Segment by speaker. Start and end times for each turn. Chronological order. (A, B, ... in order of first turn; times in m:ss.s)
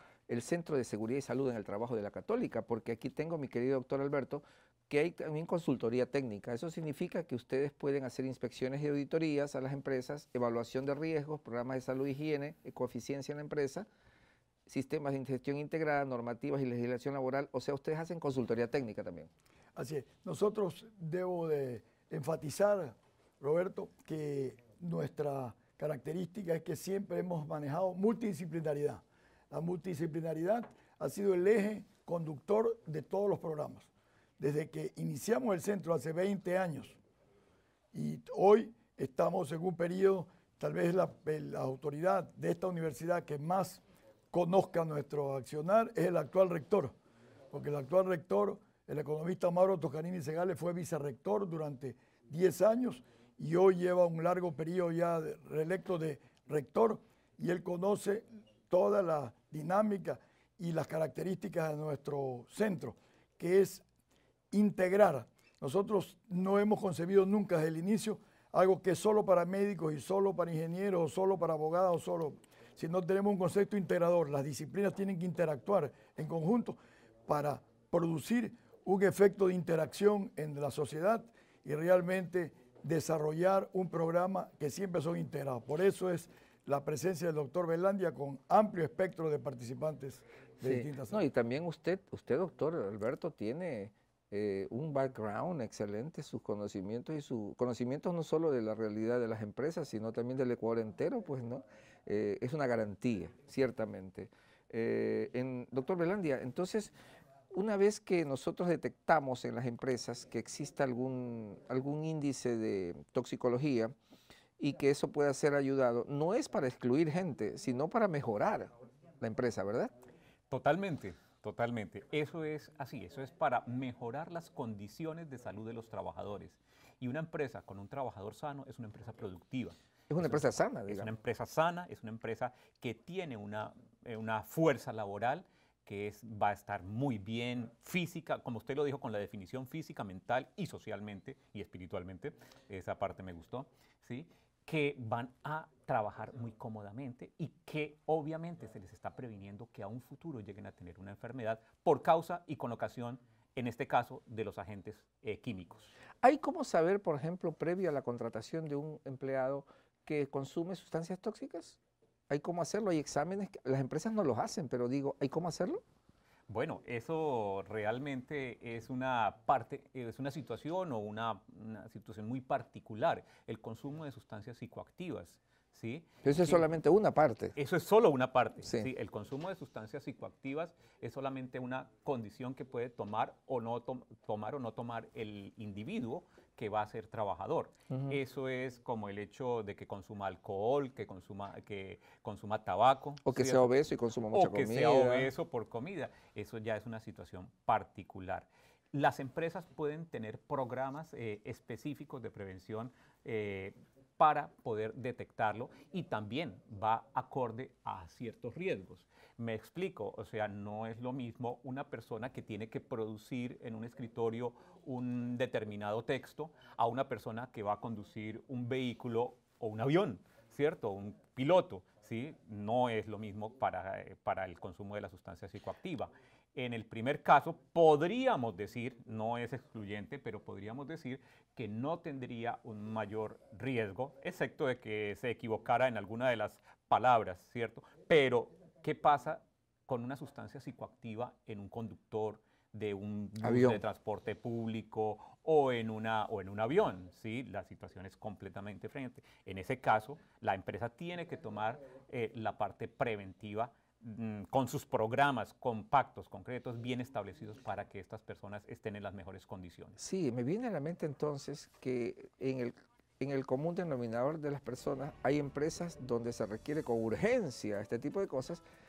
0:00.3-0:13.9 A
0:14.7-0:19.3 A
0:19.7-0:37.0 B
0:37.9-0:46.9 B
0:47.5-1:03.8 B
1:04.5-1:31.2 B
1:30.6-1:46.9 A
1:47.5-1:53.9 A
1:54.6-1:59.9 A
2:00.5-2:35.9 C
2:10.1-2:11.1 A
2:36.2-2:41.8 A
2:42.3-2:45.8 A
2:46.5-2:56.6 C
2:56.2-2:57.6 A
2:57.6-3:13.7 C
3:07.9-3:08.2 A
3:13.2-3:15.3 A
3:14.3-4:20.0 C
4:03.4-4:03.8 A
4:20.0-4:28.6 A